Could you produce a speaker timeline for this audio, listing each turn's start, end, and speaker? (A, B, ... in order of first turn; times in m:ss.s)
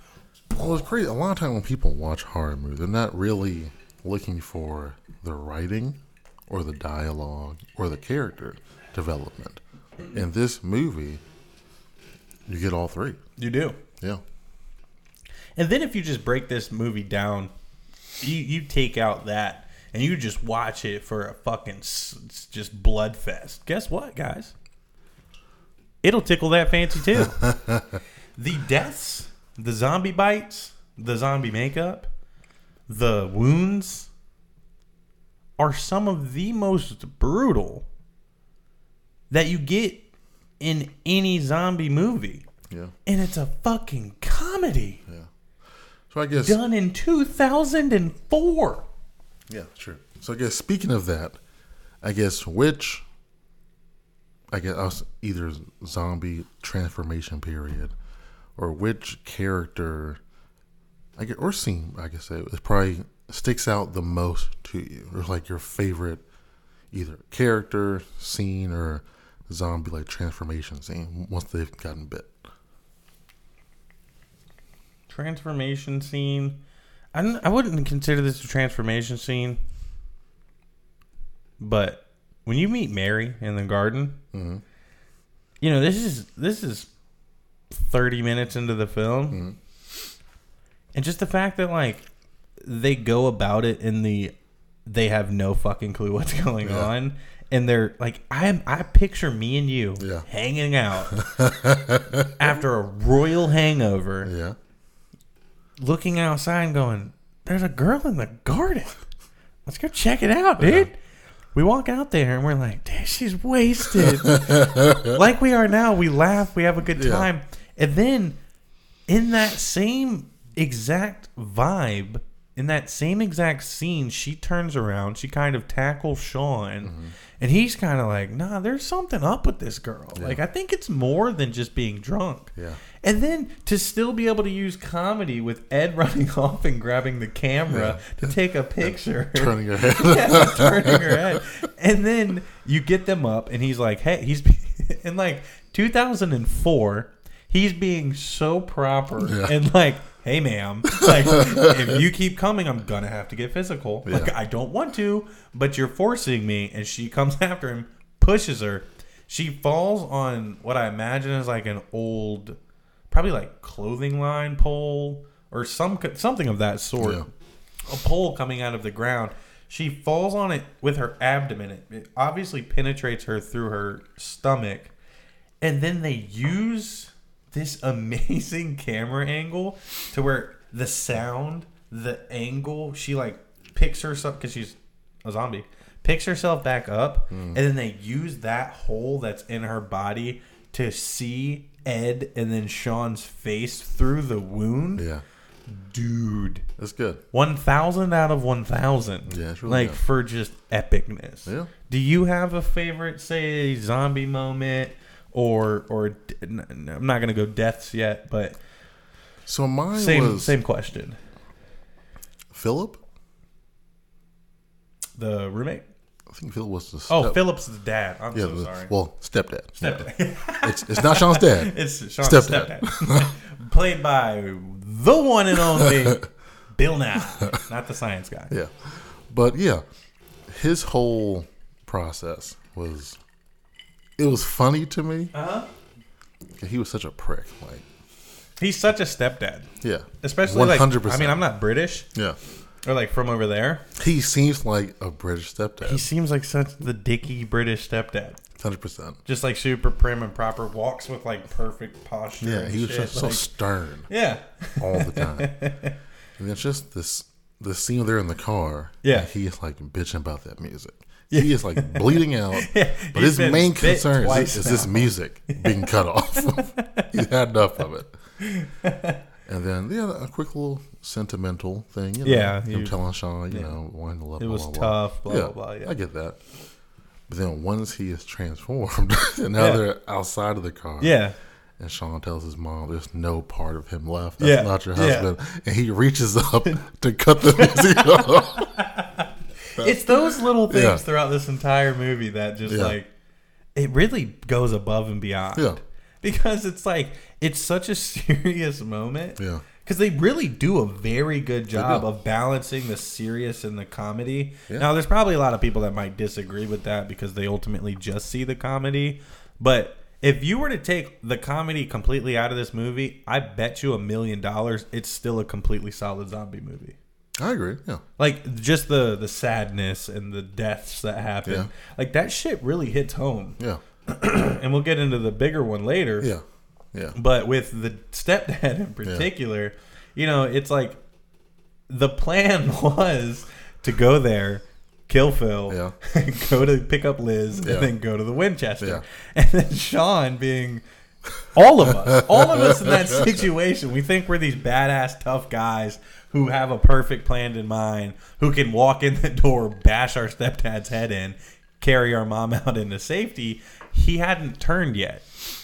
0:00.5-0:09.6 A
0:10.1-0:11.2 A
0:12.5-0:13.2 A
0:13.4-0:13.8 B
0:15.6-0:17.5 B
0:18.2-0:24.5 B
0:26.0-0:27.6 B
0:27.2-0:27.8 A
0:28.4-0:32.1 B
0:32.9-0:34.1 B
0:35.6-0:37.9 B
0:39.3-0:40.1 B
0:40.6-0:42.4 B
0:43.1-0:45.0 B
0:46.1-0:46.6 A
0:46.4-0:48.9 B
0:49.5-0:51.4 A
0:52.0-0:53.0 A
0:54.5-0:57.9 A
0:58.6-1:00.2 A
1:01.2-1:06.2 A
1:06.9-1:12.3 A
1:15.1-1:16.6 B
1:17.1-1:19.6 B
1:21.6-1:24.2 B
1:24.3-1:24.6 A
1:25.6-1:26.9 B
1:27.7-1:29.4 B
1:29.3-1:29.6 A
1:31.0-1:32.1 B
1:32.6-1:34.3 B
1:34.9-1:41.2 B
1:36.6-1:36.9 A
1:40.0-1:40.3 A
1:41.1-1:42.4 A
1:42.4-1:44.3 B
1:44.2-1:44.6 A
1:45.8-1:49.0 B
1:49.7-1:51.0 B
1:50.6-1:50.9 A
1:51.5-1:58.4 B
1:54.2-1:55.2 A
1:56.9-1:57.3 A
1:59.1-2:42.6 B
2:06.8-2:07.1 A
2:12.6-2:12.8 A
2:17.7-2:18.3 A
2:18.8-2:21.4 A
2:29.2-2:29.6 A
2:30.9-2:31.9 A
2:34.0-2:34.3 A
2:43.1-2:47.3 B
2:47.9-2:54.9 B
2:55.6-3:15.1 B
3:07.3-3:07.6 A
3:15.0-3:15.2 A
3:15.7-3:16.7 B
3:16.8-3:17.2 A
3:17.3-3:28.6 B
3:19.3-3:20.0 A
3:21.5-3:21.7 A
3:29.4-3:30.6 A
3:29.9-3:31.2 B
3:32.5-3:33.0 A
3:35.2-3:35.8 B
3:36.3-3:37.4 A
3:37.1-3:38.9 B
3:38.3-3:40.1 A
3:39.8-3:48.5 B
3:40.6-3:43.3 A
3:45.6-3:46.2 A
3:48.5-3:49.8 A
3:50.5-3:53.2 A
3:54.2-3:55.3 A
3:55.3-3:55.7 B
3:56.6-3:57.8 A
3:58.6-3:59.7 B
3:59.8-4:01.4 A
4:00.2-4:02.1 B
4:02.8-4:03.8 B
4:04.0-4:06.0 A
4:05.8-4:08.4 B
4:08.6-4:09.2 A
4:09.3-4:13.5 B
4:12.4-4:14.1 A
4:14.1-4:16.0 B
4:14.8-4:15.6 A
4:16.4-4:28.1 A
4:19.0-4:19.3 B
4:21.3-4:27.1 B
4:28.4-4:29.2 B
4:29.5-4:36.4 A
4:32.2-4:33.0 B
4:33.5-4:33.8 B
4:34.4-4:36.0 B
4:37.3-4:41.2 A
4:39.6-4:39.8 B
4:41.0-4:41.4 B
4:41.8-4:48.8 A
4:44.4-4:45.3 B
4:47.4-4:53.1 B
4:49.8-4:51.0 A
4:52.7-4:53.0 A
4:53.8-5:17.0 B
4:59.4-4:59.6 A
5:01.7-5:02.0 A
5:17.4-5:18.0 A
5:18.2-5:26.3 B
5:21.4-5:21.7 A
5:26.2-5:27.2 A
5:27.2-5:31.0 B
5:31.9-5:40.8 B
5:35.7-5:35.9 A
5:37.6-5:37.9 A
5:41.5-5:55.3 B
5:41.9-5:43.4 A